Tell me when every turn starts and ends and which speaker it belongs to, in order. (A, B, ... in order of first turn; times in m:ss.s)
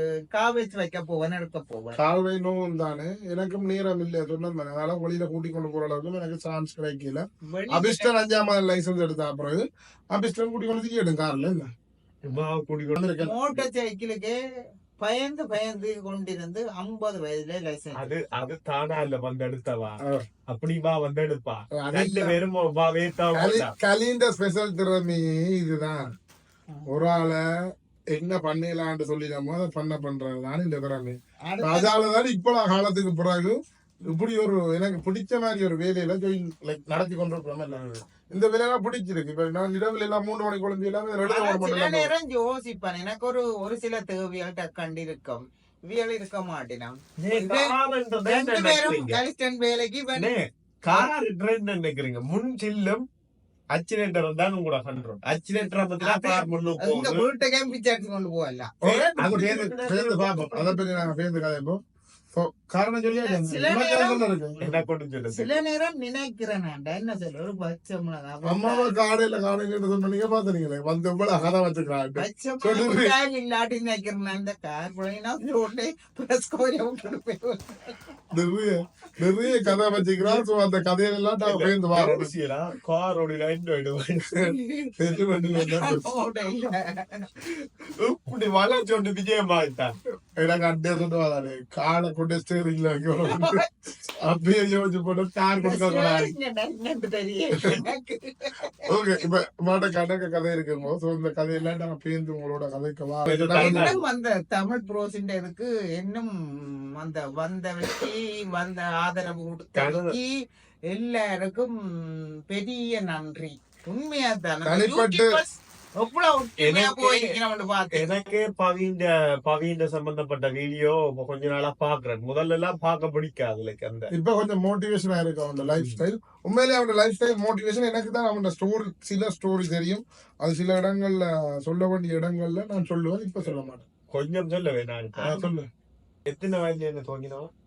0:00.3-0:02.0 A
0:02.0-0:11.7 B
0:07.4-0:08.1 A
0:12.2-0:13.0 C
0:12.9-0:13.7 B
0:13.2-0:14.4 A
0:15.0-0:18.1 A
0:18.0-0:23.7 C
0:20.0-0:20.3 B
0:21.8-0:22.4 B
0:23.3-0:26.1 B
0:26.9-0:27.4 B
0:28.1-0:42.1 B
0:31.5-0:31.9 A
0:37.7-0:38.0 C
0:41.2-0:50.3 A
0:47.2-0:49.2 C
0:50.2-0:53.0 C
0:53.7-0:57.3 C
0:56.0-0:58.7 A
0:58.8-1:01.8 B
0:58.8-1:00.8 C
1:02.3-1:04.6 B
1:03.2-1:08.9 A
1:04.6-1:05.6 C
1:08.5-1:13.1 B
1:12.2-1:18.0 A
1:18.3-1:22.3 B
1:20.2-1:20.4 C
1:21.4-1:24.5 C
1:24.4-1:27.3 A
1:25.0-1:26.0 B
1:27.5-1:29.9 C
1:30.4-1:33.6 B
1:33.2-1:33.6 A
1:34.2-1:36.3 B
1:35.6-1:38.9 A
1:38.8-1:44.0 B
1:43.3-1:44.0 C
1:43.6-1:50.4 A
1:49.8-1:50.1 C
1:50.9-1:58.1 A
1:54.7-1:55.4 B
1:56.6-1:57.4 C
1:57.9-2:04.1 C
2:04.1-2:13.8 B
2:14.1-2:15.3 C
2:15.2-2:15.5 A
2:15.2-2:15.6 B
2:16.3-2:17.5 C